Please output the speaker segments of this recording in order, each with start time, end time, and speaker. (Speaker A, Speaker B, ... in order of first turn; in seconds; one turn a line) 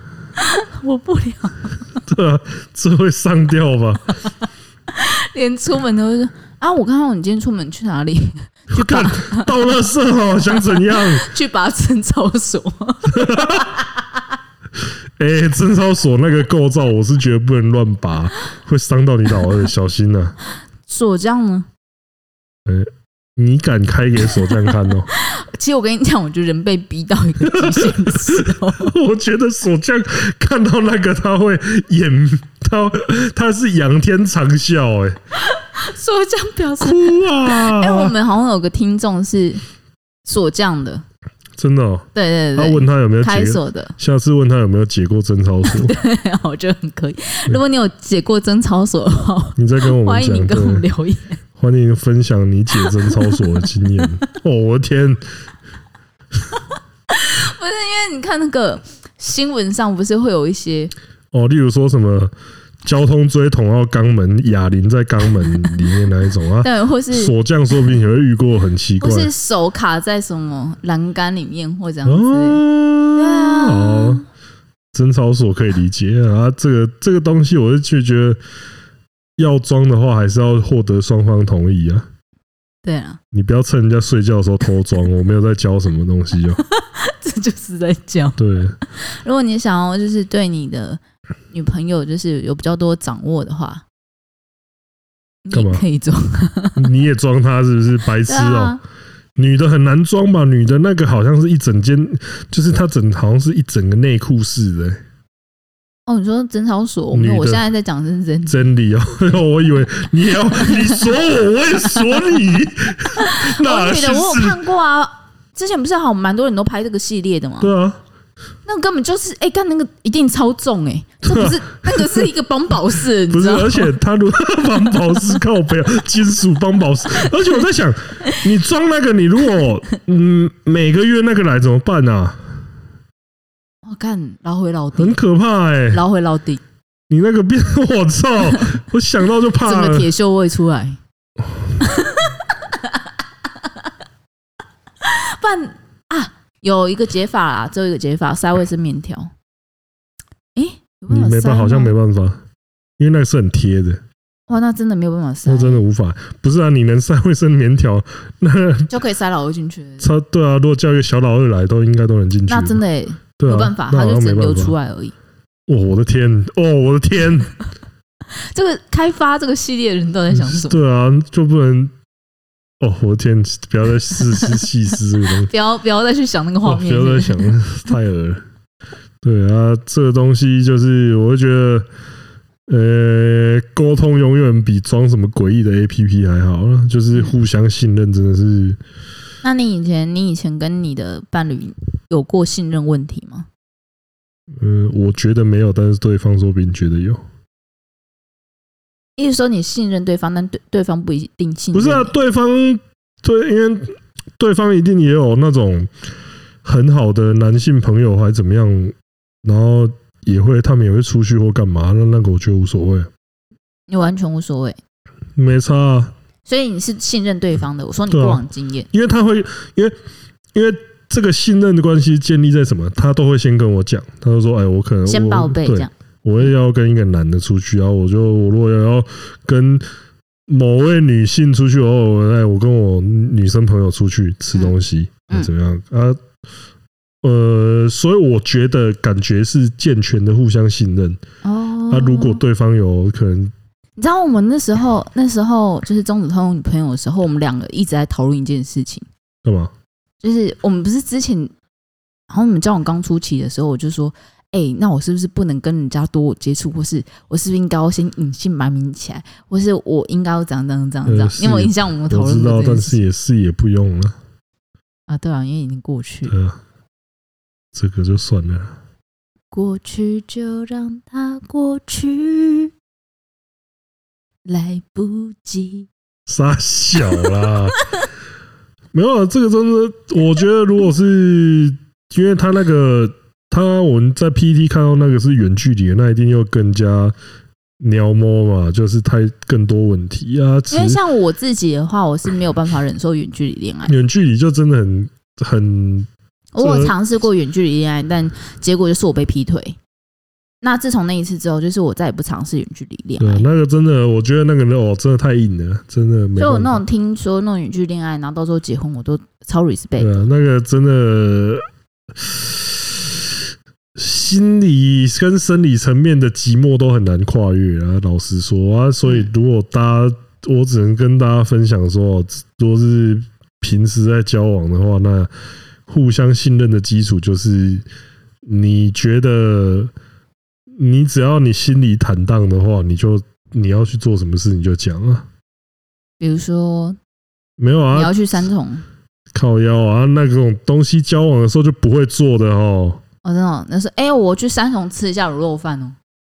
Speaker A: 0.4-1.8
Speaker B: 2.0-4.1
Speaker A: 4.9-9.5
Speaker B: 8.7-11.2
Speaker A: 10.5-13.9
Speaker B: 13.1-13.7
Speaker B: 15.2-20.4
Speaker A: 20.9-21.7
Speaker B: 22.6-25.1
Speaker A: 25.1-28.9
Speaker B: 27.4-35.2
Speaker A: 35.4-39.6
Speaker B: 36.8-38.1
Speaker A: 40.2-41.0
Speaker B: 41.6-45.9
Speaker A: 42.1-43.9
Speaker A: 45.6-51.4
Speaker B: 49.6-50.8
Speaker B: 51.6-55.2
Speaker A: 52.8-53.4
Speaker A: 57.1-60.9
Speaker B: 61.3-62.3
Speaker B: 62.8-69.3
Speaker A: 66.6-67.3
Speaker A: 69.0-72.6
Speaker B: 72.0-74.2
Speaker A: 73.1-74.2
Speaker B: 74.9-78.4
Speaker B: 79.4-82.1
Speaker A: 82.8-83.2
Speaker B: 83.3-86.6
Speaker A: 86.7-91.0
Speaker B: 88.4-88.8
Speaker A: 91.5-93.8
Speaker A: 95.4-96.8
Speaker B: 95.5-95.8
Speaker B: 96.8-98.8
Speaker A: 98.2-98.8
Speaker B: 99.3-105.0
Speaker A: 106.0-108.6
Speaker B: 107.1-107.6
Speaker B: 108.5-114.6
Speaker A: 113.2-117.7
Speaker B: 117.6-118.0
Speaker A: 118.7-123.9
Speaker B: 121.2-122.2
Speaker B: 123.3-132.4
Speaker A: 133.8-135.2
Speaker B: 135.0-136.0
Speaker A: 135.9-136.6
Speaker B: 137.1-140.1
Speaker A: 139.6-141.0
Speaker A: 141.8-143.0
Speaker A: 145.0-149.3
Speaker A: 150.5-151.9
Speaker B: 151.1-152.4
Speaker B: 153.0-154.0
Speaker A: 154.5-155.8
Speaker B: 155.4-158.9
Speaker A: 158.9-160.1
Speaker B: 160.0-162.8
Speaker A: 162.5-165.1
Speaker B: 163.4-164.7
Speaker B: 165.7-167.6
Speaker A: 168.3-170.8
Speaker B: 170.3-171.9
Speaker B: 172.8-175.5
Speaker A: 175.4-177.5
Speaker B: 176.6-178.4
Speaker B: 179.2-181.9
Speaker B: 182.7-188.8
Speaker A: 189.4-193.5
Speaker B: 194.6-197.2
Speaker A: 199.2-202.1
Speaker B: 201.7-205.9
Speaker B: 206.6-213.1
Speaker A: 213.9-214.8
Speaker B: 215.3-216.1
Speaker A: 216.4-218.9
Speaker B: 218.1-219.9
Speaker B: 220.5-229.8
Speaker A: 225.1-226.5
Speaker B: 230.5-236.2
Speaker B: 237.2-241.2
Speaker A: 241.4-242.4
Speaker B: 241.9-243.5
Speaker A: 244.0-249.1
Speaker B: 249.4-249.7
Speaker A: 250.2-251.5
Speaker A: 252.3-263.0
Speaker B: 261.0-264.2
Speaker A: 265.1-266.3
Speaker B: 266.3-266.6
Speaker B: 267.7-268.8
Speaker A: 269.5-272.7
Speaker A: 274.4-275.9
Speaker B: 276.3-277.8
Speaker B: 278.9-287.1
Speaker B: 287.8-291.0
Speaker A: 290.7-293.9
Speaker B: 293.9-296.1
Speaker A: 296.5-299.8
Speaker B: 296.6-296.9
Speaker A: 300.6-303.5
Speaker B: 303.2-306.8
Speaker A: 306.4-310.1
Speaker B: 310.0-311.6
Speaker B: 312.2-313.3
Speaker B: 313.9-325.3
Speaker B: 325.9-327.9
Speaker B: 328.4-329.9
Speaker B: 330.8-335.3
Speaker A: 336.2-337.0
Speaker B: 337.6-338.1
Speaker A: 337.9-338.8
Speaker B: 339.3-343.0
Speaker A: 343.2-346.0